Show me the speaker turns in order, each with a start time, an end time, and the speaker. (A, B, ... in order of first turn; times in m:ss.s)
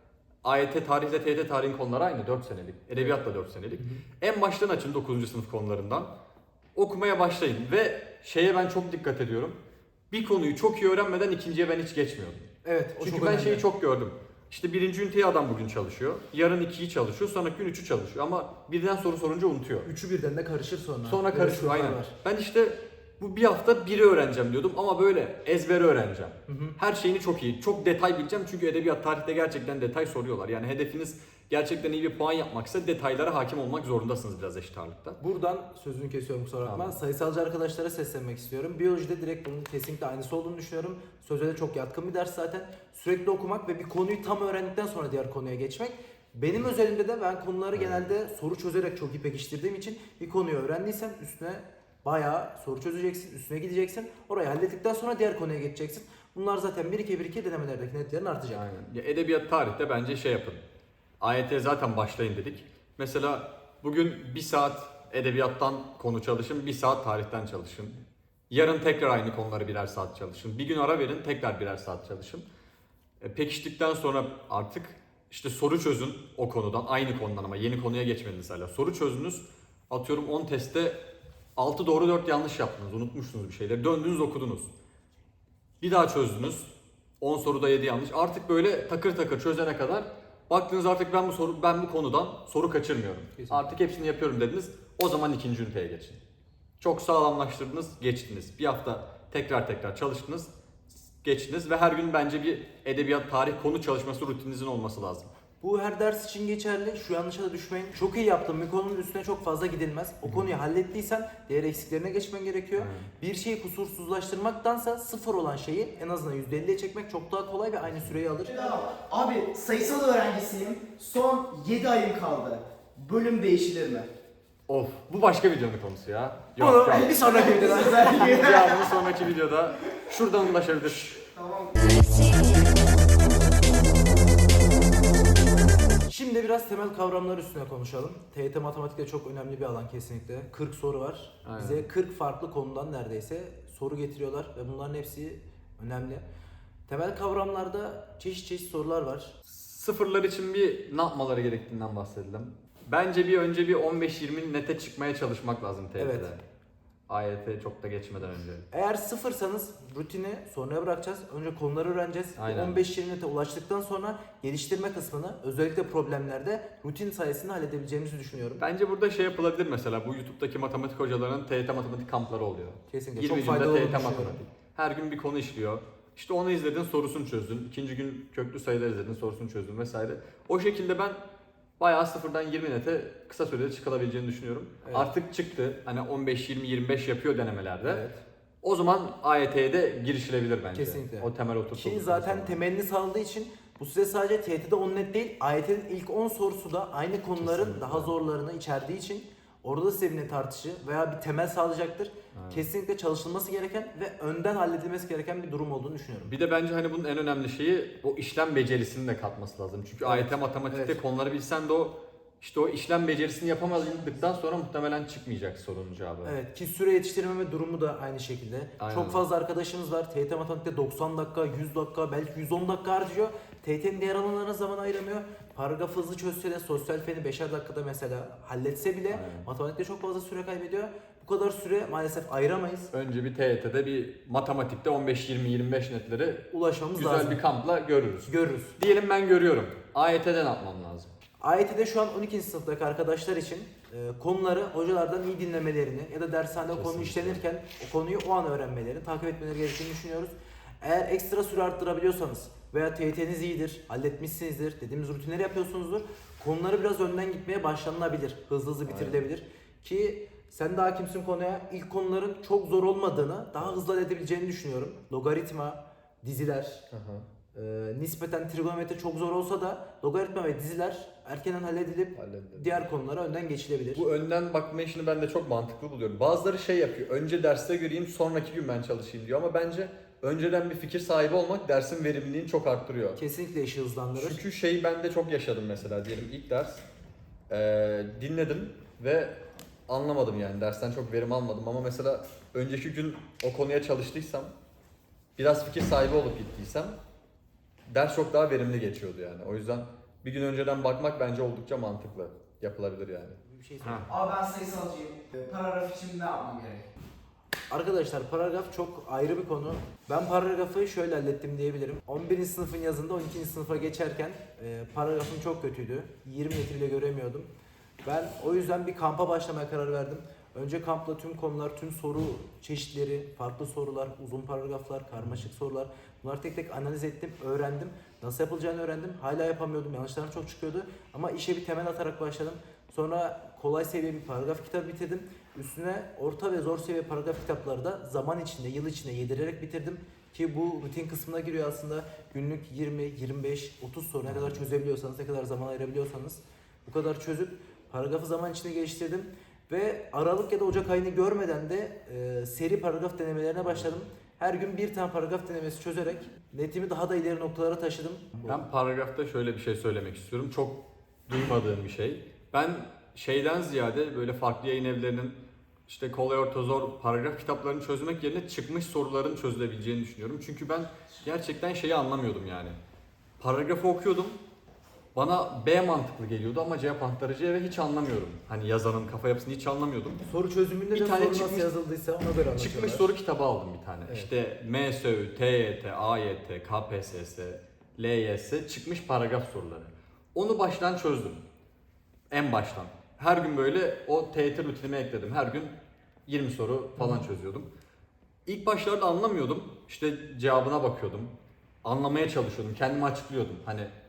0:00.4-0:06.1 A
0:03.8-0:04.0 B
0:06.8-0:09.6 A
0:10.1-0:19.9 A
0:12.6-0:13.6 B
0:19.8-0:22.1 B
0:21.0-0:35.2 A
0:26.5-0:26.8 B
0:35.2-0:58.6 B
0:36.6-0:37.0 A
0:47.8-0:48.0 A
0:58.5-1:00.6 A
1:01.2-1:12.4 A
1:13.2-1:21.0 A
1:21.6-1:24.7 A
1:25.8-1:26.7 A
1:27.2-1:36.2 A
1:33.4-1:33.8 B
1:36.8-1:45.3 A
1:45.6-1:58.6 B
1:52.8-1:53.1 A
1:57.9-1:58.2 A
1:58.5-2:04.1 C
2:04.7-2:07.3 A
2:06.6-2:08.3 B
2:07.1-2:08.9 C
2:08.0-2:11.2 A
2:11.3-2:12.6 C
2:16.1-2:26.2 B
2:21.4-2:21.9 A
2:26.9-2:29.4 B
2:29.5-2:36.4 A
2:36.0-2:36.3 B
2:37.1-2:38.6 A
2:38.7-2:48.6 B
2:42.4-2:42.8 A
2:48.6-3:01.2 A
2:52.9-2:54.4 B
3:01.8-3:08.0 A
3:04.8-3:05.1 B
3:07.8-3:08.2 B
3:08.6-3:12.6 A
3:10.7-3:26.3 B
3:17.4-3:18.2 A
3:22.3-3:22.7 A
3:26.2-3:36.4 A
3:30.0-3:31.0 B
3:36.2-3:52.9 B
3:38.8-3:39.2 A
3:49.1-3:49.5 A
3:52.9-4:01.1 A
3:56.5-3:57.4 B
3:58.3-3:58.8 B
4:01.4-4:26.8 B
4:06.7-4:07.4 A
4:18.9-4:19.2 A
4:26.9-4:27.3 A
4:27.5-4:34.1 B
4:32.2-4:32.8 A
4:33.9-4:43.2 A
4:43.2-4:44.4 B
4:44.2-4:46.8 A
4:47.5-4:54.5 A
4:55.4-4:57.0 A
4:57.9-5:04.0 A
5:03.4-5:04.2 B
5:04.1-5:06.9 C
5:07.7-5:17.5 B
5:18.0-5:58.6 B
5:44.3-5:44.6 A
5:53.7-5:53.9 A
5:58.5-6:12.8 A
6:13.4-6:14.4 A
6:15.2-6:20.2 A
6:20.2-6:23.1 B
6:20.9-6:21.7 A
6:22.5-6:31.4 A
6:32.3-6:35.7 A
6:36.3-6:37.7 A
6:37.0-6:37.3 B
6:38.5-6:41.3 A
6:41.8-6:43.9 A